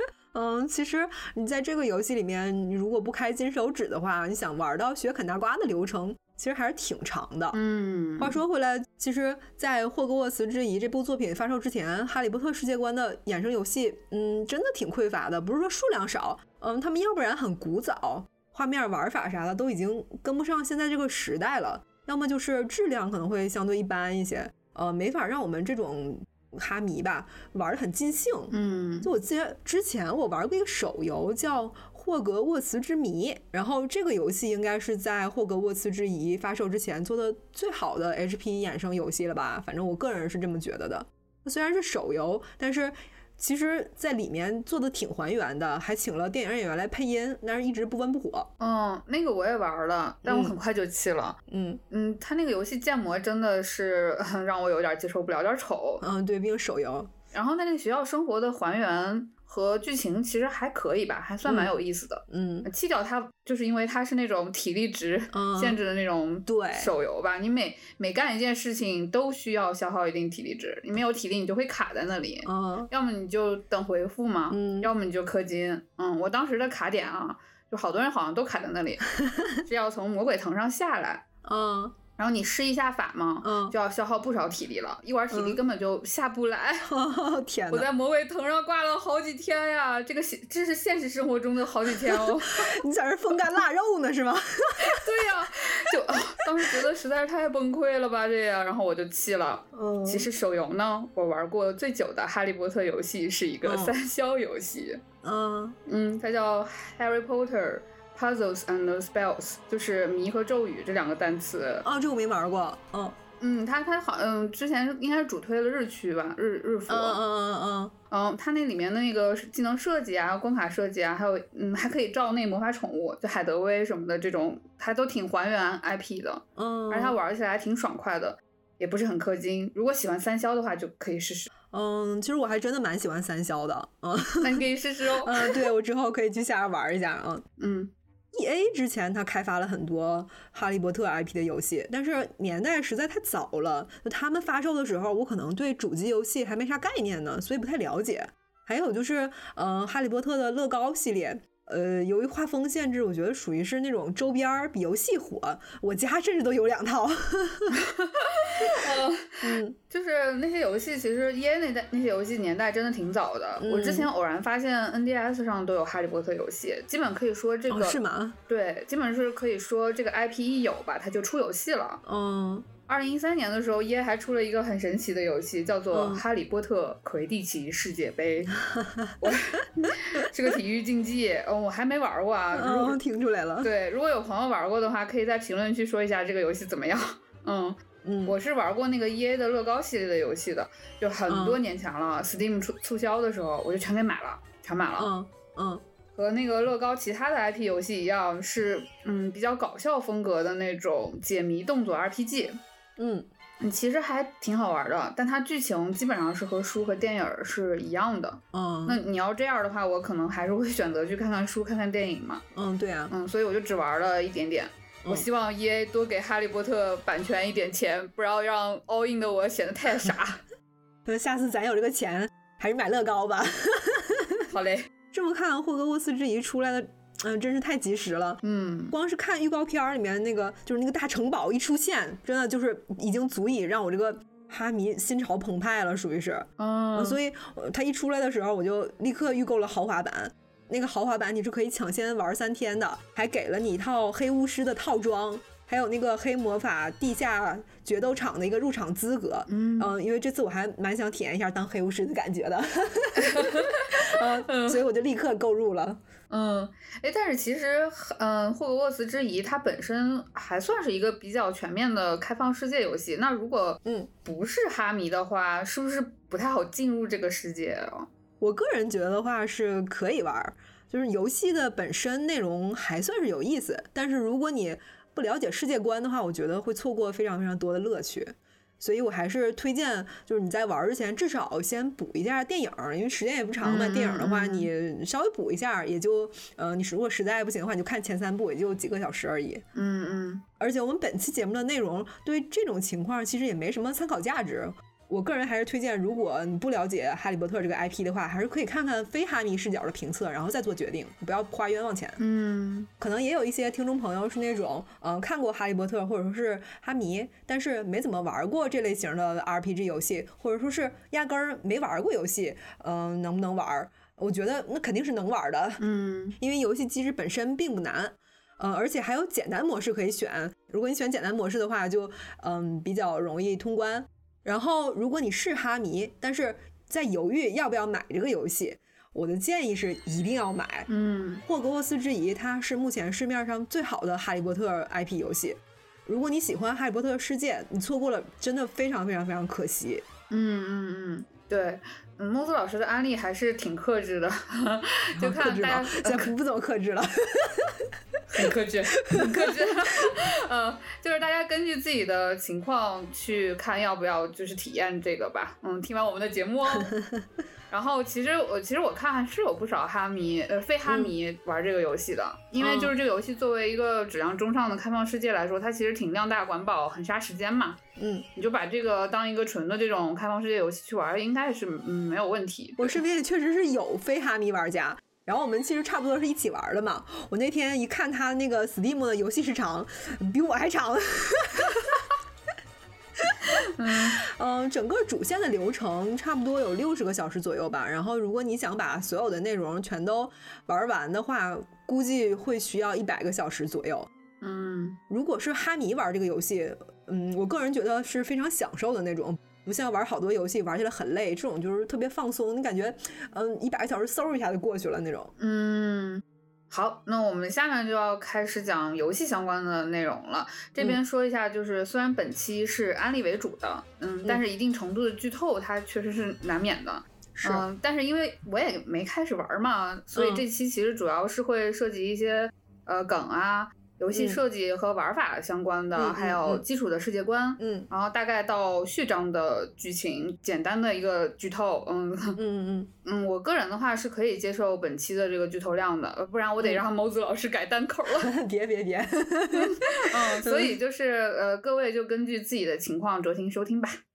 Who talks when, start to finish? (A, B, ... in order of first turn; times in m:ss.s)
0:00.3-0:07.6 A
0:07.5-0:08.4 B
0:08.2-0:48.5 A
0:28.5-0:29.1 B
0:48.6-0:51.4 B
0:50.2-0:50.5 A
0:51.5-0:51.8 A
0:51.9-0:56.0 B
0:56.0-0:57.1 A
0:57.3-1:19.1 B
1:01.4-1:01.7 A
1:02.3-1:02.7 A
1:05.3-1:05.8 A
1:06.5-1:06.9 A
1:12.4-1:12.9 A
1:14.5-1:14.9 A
1:19.2-1:19.5 A
1:19.6-1:21.2 B
1:21.4-1:22.0 A
1:22.2-1:26.9 B
1:23.4-1:23.7 A
1:25.3-1:25.6 A
1:26.8-1:27.9 A
1:27.7-1:32.7 B
1:31.9-1:35.2 A
1:34.8-1:45.0 B
1:36.4-1:36.8 A
1:39.7-1:40.3 A
1:43.6-1:44.0 A
1:45.2-1:45.8 A
1:45.9-1:51.8 B
1:51.8-1:53.2 A
1:53.4-1:57.2 B
1:56.9-1:57.9 A
1:58.1-2:11.5 B
2:06.6-2:07.2 A
2:11.7-2:14.6 A
2:14.4-2:15.6 B
2:15.2-2:17.4 A
2:17.6-2:17.9 B
2:18.3-2:37.8 A
2:37.7-2:52.0 B
2:38.6-2:38.9 A
2:39.4-2:39.8 A
2:43.6-2:44.1 A
2:47.7-2:48.4 A
2:52.0-2:52.7 A
2:52.9-2:58.6 B
2:55.9-2:56.2 A
2:58.6-2:59.3 A
2:59.2-3:03.0 B
3:02.5-3:03.7 A
3:03.6-3:15.1 B
3:08.0-3:08.4 A
3:11.3-3:11.6 A
3:15.0-3:15.8 A
3:16.1-3:22.6 B
3:23.0-3:23.3 A
3:23.6-3:32.4 B
3:28.5-3:29.0 A
3:32.5-3:33.1 A
3:33.1-3:40.4 B
3:41.0-3:44.5 A
3:44.5-3:44.9 B
3:45.1-3:48.4 A
3:48.4-3:48.9 B
3:48.9-4:16.0 A
3:56.6-3:57.2 B
4:09.5-4:09.9 B
4:13.1-4:14.8 B
4:16.3-4:28.1 B
4:28.4-4:49.6 A
4:43.6-4:44.7 B
4:49.7-4:50.4 B
4:50.6-5:02.2 A
5:02.2-5:02.9 B
5:03.0-5:15.8 A
5:15.8-5:16.4 B
5:16.4-5:30.9 A
5:30.9-5:31.4 B
5:31.4-5:40.0 A
5:40.3-5:46.3 B
5:45.2-5:50.1 A
5:48.3-5:56.9 B
5:56.8-5:57.2 A
5:57.7-6:07.8 B
6:00.8-6:01.1 A
6:02.6-6:02.9 A
6:08.0-6:08.2 A
6:08.3-6:13.0 B
6:12.8-6:22.0 A
6:23.2-6:34.1 A
6:23.6-6:24.2 B
6:34.4-6:35.0 B
6:35.1-6:45.3 A
6:45.4-7:12.4 B
6:57.4-6:57.6 A
7:00.1-7:00.4 A
7:06.0-7:06.6 A
7:07.6-7:07.9 A
7:12.4-7:12.9 A
7:13.0-7:18.3 B
7:18.2-7:20.8 A
7:19.5-7:24.0 B